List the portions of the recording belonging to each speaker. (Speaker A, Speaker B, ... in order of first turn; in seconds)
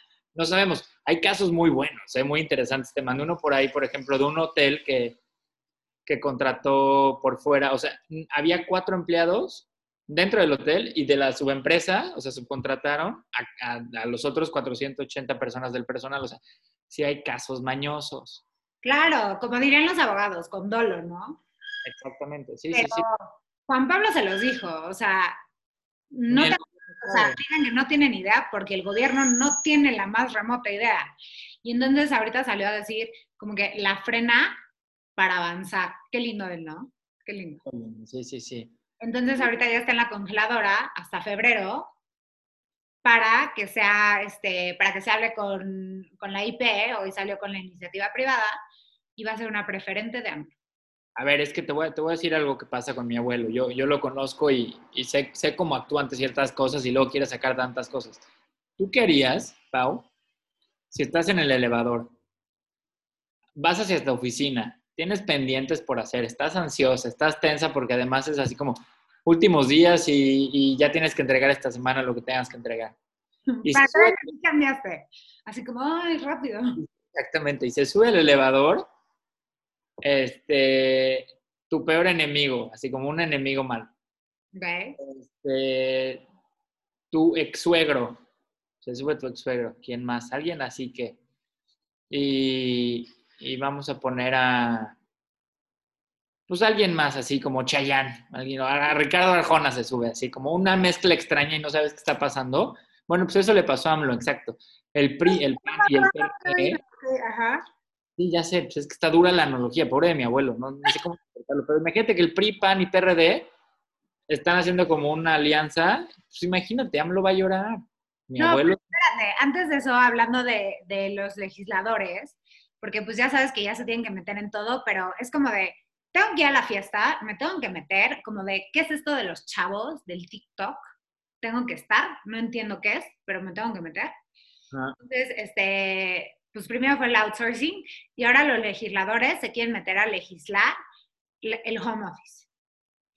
Speaker A: 0.3-5.2, 6.0-18.4, 21.8-23.1, 26.3-27.4, 37.6-38.7, 51.1-58.2, 58.8-60.1, 60.9-62.1, 63.5-73.0, 73.6-74.2, 76.8-78.8, 80.0-83.9, 85.0-86.2, 87.1-88.2, 88.8-91.2, 92.1-95.0, 96.5-106.8, 108.2-113.5, 114.3-118.8
Speaker B: 18.8-21.4, 22.7-25.4, 26.1-31.1, 31.6-34.5, 35.2-37.6, 39.0-41.9, 43.0-48.5, 49.2-50.5, 73.5-76.8, 84.5-85.0, 105.2-107.6, 118.4-130.9, 131.4-134.1, 135.0-140.7, 141.4-142.5